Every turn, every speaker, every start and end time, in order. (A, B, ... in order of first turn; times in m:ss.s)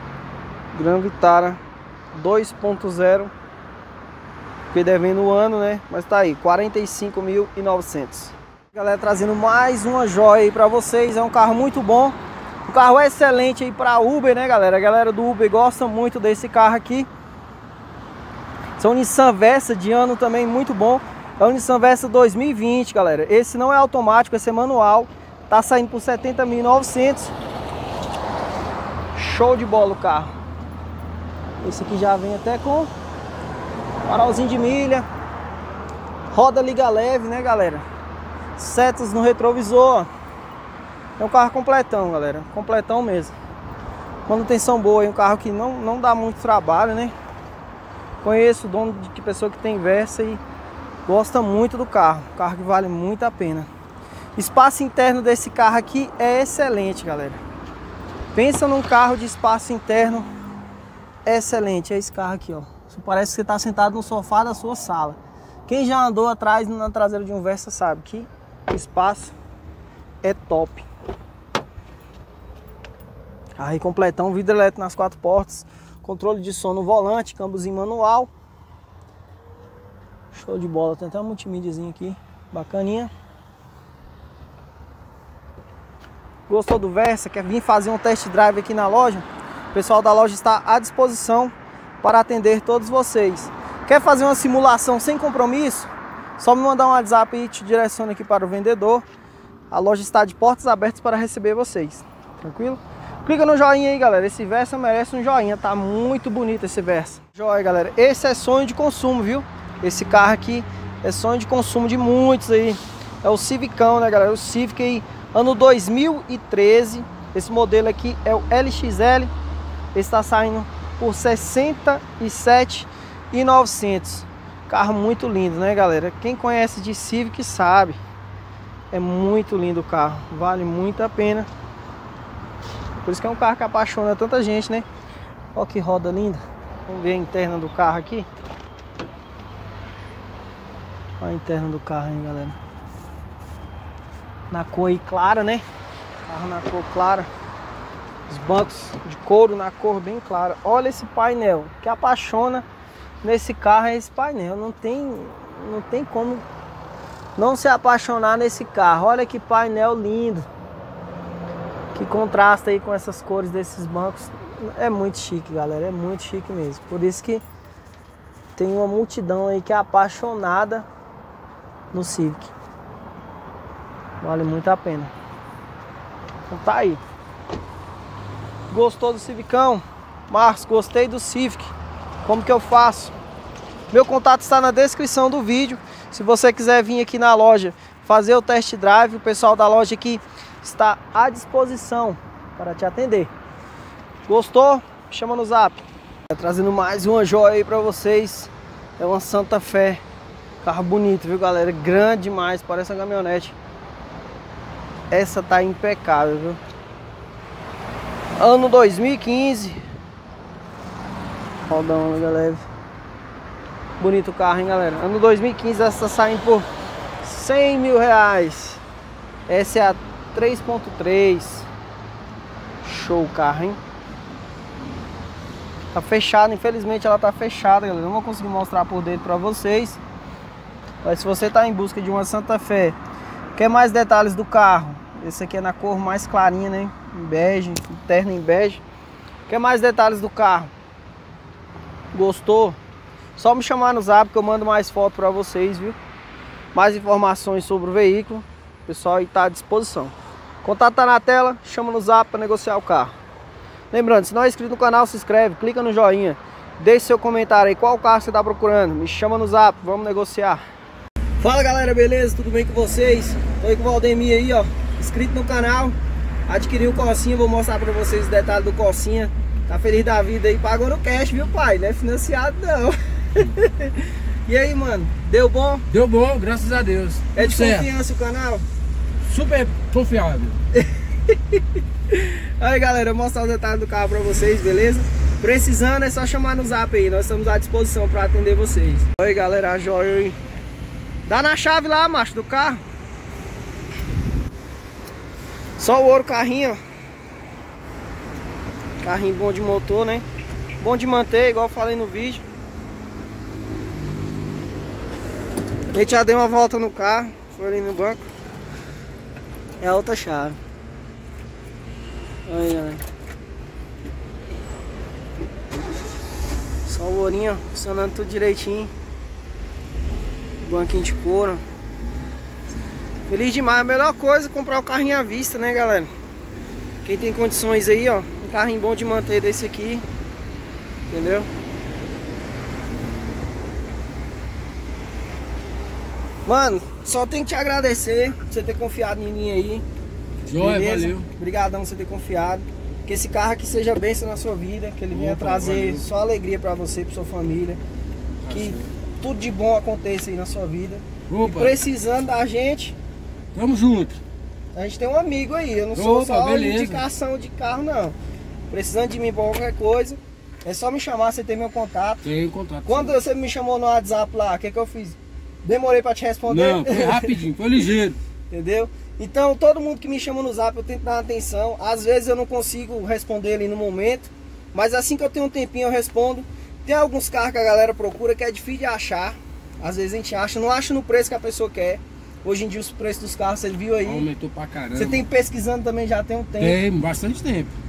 0:00.7-0:01.6 A
0:02.2-0:03.3 A
0:04.7-0:17.1 A
0:18.8-0:27.3 A
0:29.2-0:30.3 A
0:31.6-0:32.9 A
0:34.0-0:35.0 A
0:36.3-0:37.8 A
0:38.6-0:40.1 A
0:41.2-0:43.3 A
0:44.3-0:47.1 A
0:48.2-0:50.4 A
0:51.1-0:53.7 A
0:54.4-0:57.4 A
0:58.4-1:00.3 A
1:01.3-1:09.3 A
1:10.2-1:10.9 A
1:13.6-1:18.3 A
1:20.3-1:23.1 A
1:26.5-1:39.0 A
1:39.7-1:59.3 A
1:59.9-2:08.0 A
2:08.9-2:11.5 A
2:13.0-2:14.8 A
2:15.6-2:18.3 A
2:21.2-2:22.6 A
2:24.5-2:25.6 A
2:26.3-2:27.3 A
2:28.3-2:32.6 A
2:33.2-2:36.4 A
2:37.4-2:40.5 A
2:42.0-2:47.4 A
2:48.6-2:50.9 A
2:51.9-2:52.5 A
2:54.2-2:55.1 A
2:56.5-2:57.0 A
2:58.7-3:01.7 A
3:02.2-3:03.1 A
3:03.9-3:13.3 A
3:14.3-3:20.0 A
3:20.6-3:23.6 A
3:25.1-3:26.6 A
3:28.4-3:29.8 A
3:31.6-3:32.6 A
3:34.0-3:36.7 A
3:37.2-3:38.8 A
3:39.5-3:41.7 A
3:42.8-3:43.8 A
3:45.9-3:50.0 A
3:51.0-3:53.0 A
3:53.6-3:58.8 A
3:59.5-4:00.7 A
4:02.1-4:02.8 A
4:03.4-4:06.0 A
4:06.7-4:13.1 A
4:13.9-4:20.6 A
4:21.4-4:26.0 A
4:26.5-4:35.9 A
4:35.9-4:37.9 B
4:37.4-4:38.7 A
4:39.2-4:40.6 B
4:40.7-4:50.4 A
4:51.3-4:52.8 A
4:55.8-4:56.8 A
4:59.0-5:00.2 A
5:00.8-5:02.4 A
5:05.9-5:08.2 A
5:09.8-5:10.6 A
5:12.5-5:13.0 A
5:16.8-5:18.9 A
5:20.6-5:21.6 A
5:23.3-5:26.1 A
5:27.0-5:30.0 A
5:31.1-5:31.5 A
5:36.4-5:39.8 A
5:40.5-5:41.3 B
5:40.6-5:47.8 A
5:45.1-5:46.0 B
5:48.4-5:48.9 B
5:48.5-5:53.0 A
5:51.3-5:51.8 B
5:53.5-5:54.2 B
5:54.8-5:58.2 A
5:56.0-5:57.0 B
5:58.7-6:02.2 A
6:02.2-6:03.2 B
6:02.8-6:07.4 A
6:06.5-6:08.2 B
6:08.5-6:24.3 A
6:24.0-6:25.2 B
6:24.9-6:26.8 A
6:26.6-6:27.7 B